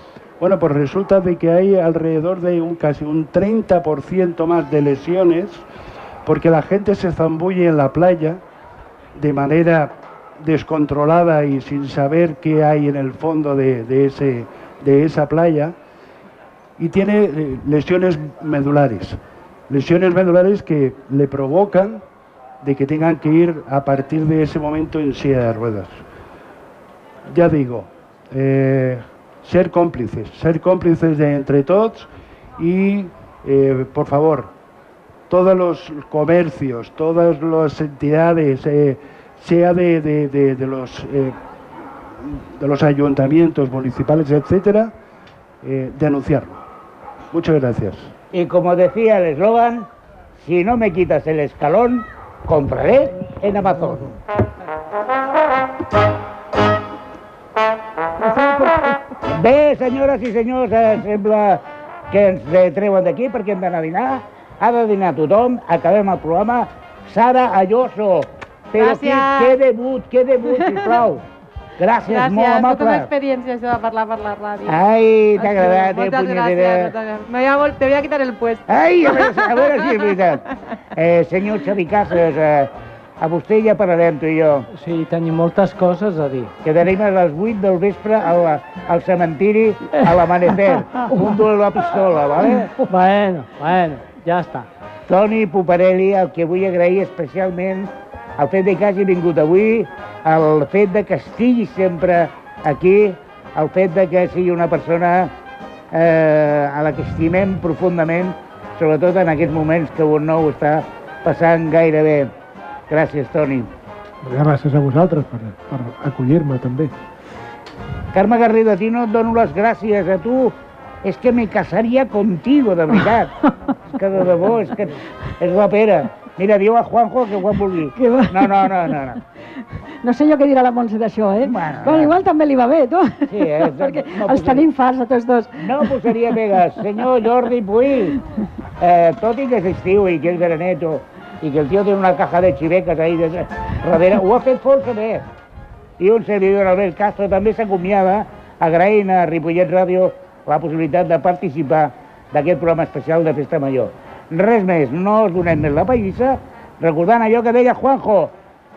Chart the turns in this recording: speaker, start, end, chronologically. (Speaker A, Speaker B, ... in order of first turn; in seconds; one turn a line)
Speaker A: 0.4-5.6
Speaker A: 6.2-8.4
Speaker A: 9.2-15.7
Speaker A: 16.8-22.0
Speaker A: 22.6-26.0
Speaker A: 27.3-34.5
Speaker A: 35.3-41.3
Speaker A: 42.2-44.9
Speaker A: 45.6-46.6
Speaker A: 47.3-48.1
Speaker B: 48.3-49.9
Speaker B: 50.4-54.2
Speaker B: 59.3-71.2
Speaker C: 68.7-69.5
Speaker C: 70.5-70.9
Speaker B: 71.8-73.1
Speaker C: 72.1-74.8
Speaker B: 74.7-76.9
Speaker C: 75.4-80.1
Speaker B: 78.7-84.7
Speaker D: 84.7-86.5
Speaker B: 86.6-92.8
Speaker D: 92.8-94.7
Speaker B: 95.1-105.3
Speaker B: 105.9-112.3
Speaker B: 112.9-113.7
Speaker E: 114.2-116.9
Speaker B: 118.1-129.2
Speaker F: 128.0-129.0
Speaker F: 130.0-136.3
Speaker B: 131.4-132.1
Speaker B: 133.3-134.7
Speaker B: 135.6-138.2
Speaker B: 138.8-145.2
Speaker B: 146.0-158.3